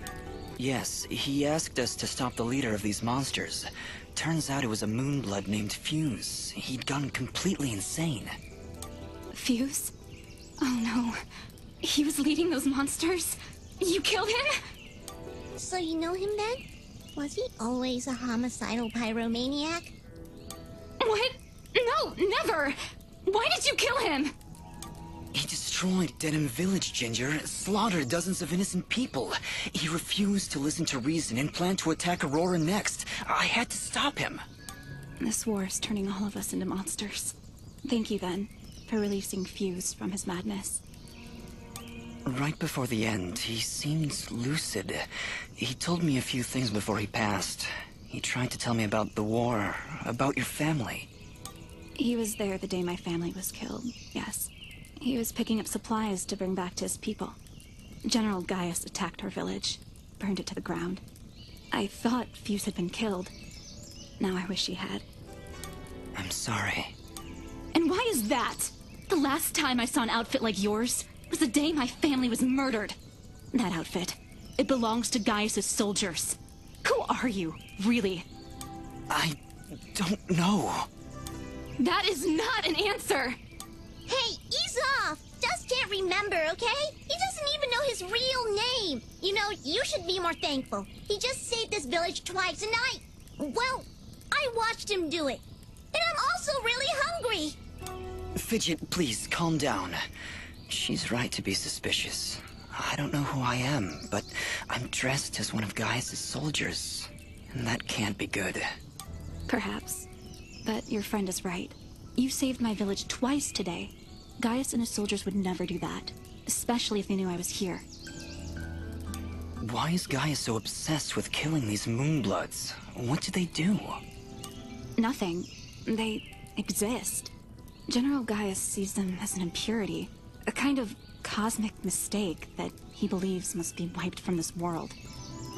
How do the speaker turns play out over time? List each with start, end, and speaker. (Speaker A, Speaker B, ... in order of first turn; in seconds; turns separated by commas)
Speaker A: 0.6-8.3, Speaker B: 9.3-9.9, Speaker B: 10.6-11.2, Speaker B: 11.8-14.5, Speaker C: 15.6-16.6, Speaker C: 17.1-19.9, Speaker B: 21.0-24.3, Speaker A: 25.3-34.4, Speaker B: 35.2-40.8, Speaker A: 42.2-51.1, Speaker B: 52.0-57.4, Speaker B: 58.0-61.0, Speaker B: 61.7-63.3, Speaker B: 64.2-65.0, Speaker A: 66.1-66.9, Speaker B: 67.7-73.0, Speaker B: 73.5-78.2, Speaker A: 79.1-80.9, Speaker B: 81.8-83.4, Speaker C: 84.1-97.6, Speaker A: 98.3-100.0, Speaker A: 100.7-108.7, Speaker B: 109.5-110.1, Speaker B: 110.6-117.8, Speaker A: 119.6-124.0, Speaker B: 125.0-127.3, Speaker B: 127.9-135.0